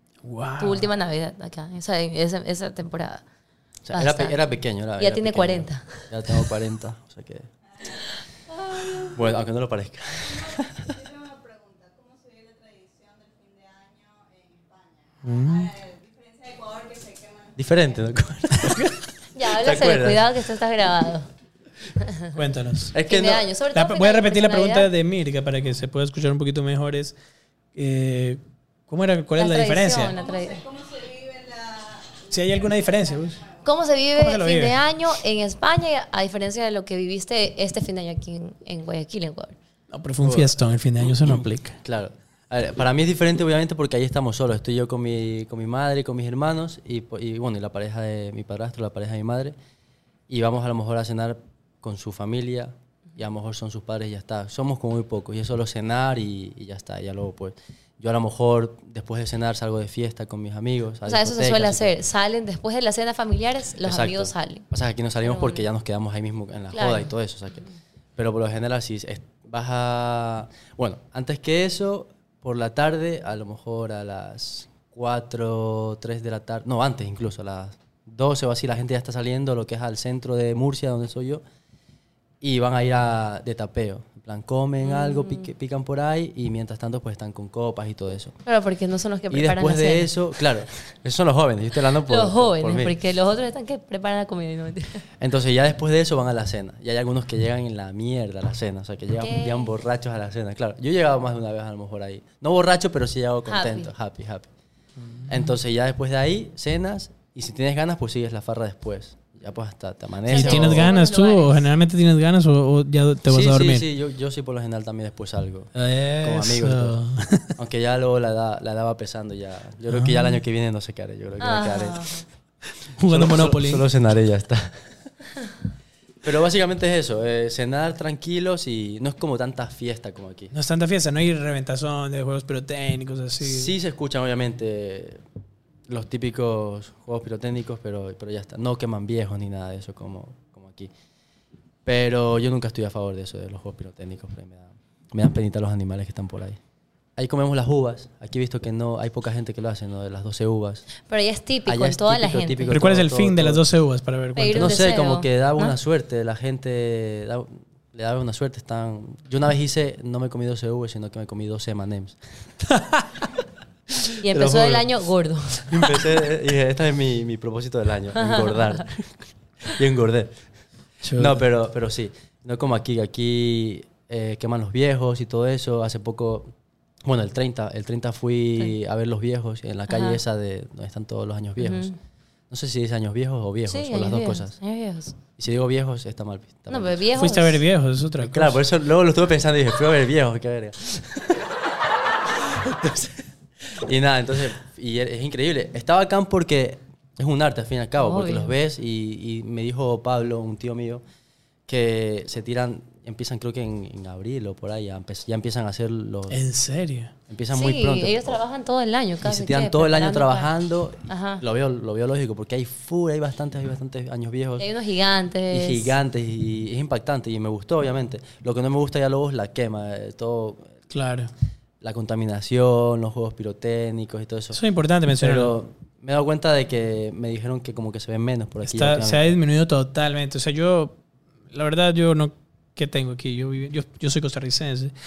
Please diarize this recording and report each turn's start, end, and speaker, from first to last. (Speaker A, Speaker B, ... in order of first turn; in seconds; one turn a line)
Speaker A: 0.2-0.9
Speaker B: 0.6-3.2
Speaker C: 3.9-7.5
Speaker B: 3.9-4.4
Speaker B: 5.0-6.5
Speaker B: 8.7-9.1
Speaker C: 9.1-11.1
Speaker A: 15.2-15.8
Speaker C: 17.6-20.3
Speaker A: 18.6-18.9
Speaker B: 19.4-21.3
Speaker B: 22.0-22.3
Speaker A: 22.3-23.0
Speaker C: 22.9-23.5
Speaker B: 23.0-24.9
Speaker A: 23.7-27.1
Speaker A: 27.8-30.1
Speaker B: 29.4-30.8
Speaker A: 32.2-33.5
Speaker B: 33.6-39.6
Speaker A: 34.1-34.8
Speaker A: 39.9-41.8
Speaker C: 40.2-40.5
Speaker C: 41.8-49.5
Speaker C: 50.3-62.0
Speaker B: 61.0-64.7
Speaker C: 63.8-81.4
Speaker B: 65.2-65.7
Speaker B: 66.7-67.1
Speaker C: 82.4-88.4
Speaker B: 84.8-85.5
Speaker B: 88.5-90.2
Speaker C: 89.3-93.0
Speaker B: 92.1-95.0
Speaker C: 95.2-104.5
Speaker B: 99.2-99.7
Speaker B: 103.5-103.9
Speaker A: 105.0-105.4
Speaker C: 105.3-110.9
Speaker B: 110.3-111.6
Speaker A: 110.3-113.9
Speaker C: 113.3-117.0
Speaker A: 115.8-117.5
Speaker C: 117.5-122.1
Speaker A: 119.9-120.4
Speaker B: 121.4-122.3
Speaker A: 122.9-123.8
Speaker C: 123.1-124.9
Speaker C: 126.2-130.5
Speaker A: 130.5-133.7
Speaker C: 133.4-135.2
Speaker C: 135.9-140.9
Speaker C: 141.8-146.6
Speaker C: 147.2-150.9
Speaker B: 151.1-152.8
Speaker C: 151.7-153.6
Speaker A: 152.7-154.7
Speaker B: 154.4-155.8
Speaker C: 154.5-162.5
Speaker A: 162.7-163.3
Speaker B: 164.2-165.7
Speaker C: 164.3-164.9
Speaker C: 165.7-170.5
Speaker B: 168.2-168.8
Speaker A: 171.0-171.4
Speaker C: 171.2-181.9
Speaker B: 179.9-180.2
Speaker B: 181.6-182.0
Speaker C: 182.5-184.6
Speaker B: 183.7-185.2
Speaker C: 185.4-187.0
Speaker B: 186.7-187.6
Speaker A: 187.2-188.6
Speaker C: 188.2-191.4
Speaker C: 192.5-201.0
Speaker B: 198.0-198.5
Speaker C: 201.7-206.4
Speaker A: 206.3-207.1
Speaker C: 207.3-208.4
Speaker B: 207.5-210.5
Speaker C: 209.2-214.7
Speaker B: 211.1-211.4
Speaker B: 214.6-215.9
Speaker C: 215.5-220.8
Speaker A: 220.9-221.3
Speaker C: 221.8-224.6
Speaker A: 224.5-225.5
Speaker C: 225.2-229.3
Speaker A: 228.6-231.0
Speaker A: 231.5-234.9